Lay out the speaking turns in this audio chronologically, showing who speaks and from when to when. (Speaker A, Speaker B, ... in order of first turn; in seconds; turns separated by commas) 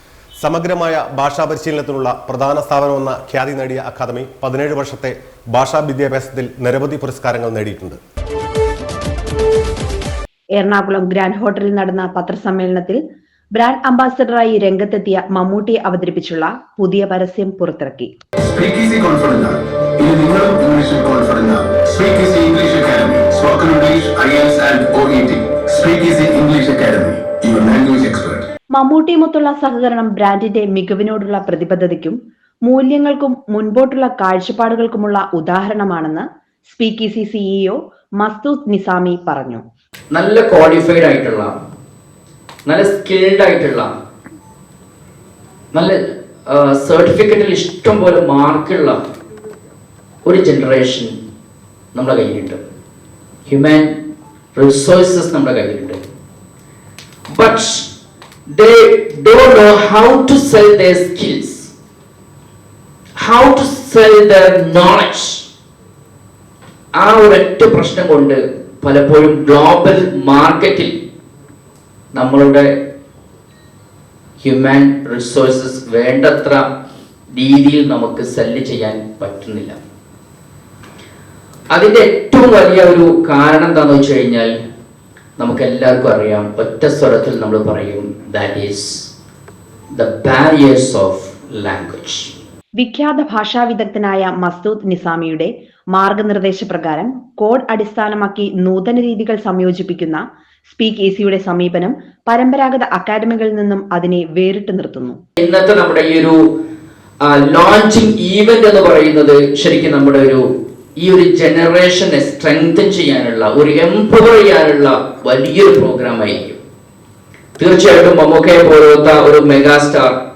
Speaker A: 0.4-8.0, Speaker B: 10.6-13.0, Speaker B: 13.5-18.1, Speaker C: 18.4-28.5, Speaker B: 28.7-39.6, Speaker D: 40.1-41.6, Speaker D: 42.7-43.9, Speaker D: 45.7-49.0, Speaker D: 50.3-51.1, Speaker D: 51.9-52.6, Speaker D: 53.5-54.0, Speaker D: 54.5-56.0, Speaker D: 57.3-57.9, Speaker D: 58.5-61.7, Speaker D: 63.2-65.4, Speaker D: 67.0-70.9, Speaker D: 72.1-72.7, Speaker D: 74.4-76.6, Speaker D: 77.3-79.8, Speaker D: 81.7-84.5, Speaker D: 85.4-89.1, Speaker D: 89.9-92.3, Speaker B: 92.8-105.2, Speaker D: 105.4-106.4, Speaker D: 107.2-110.4, Speaker D: 111.0-116.6, Speaker D: 117.6-120.2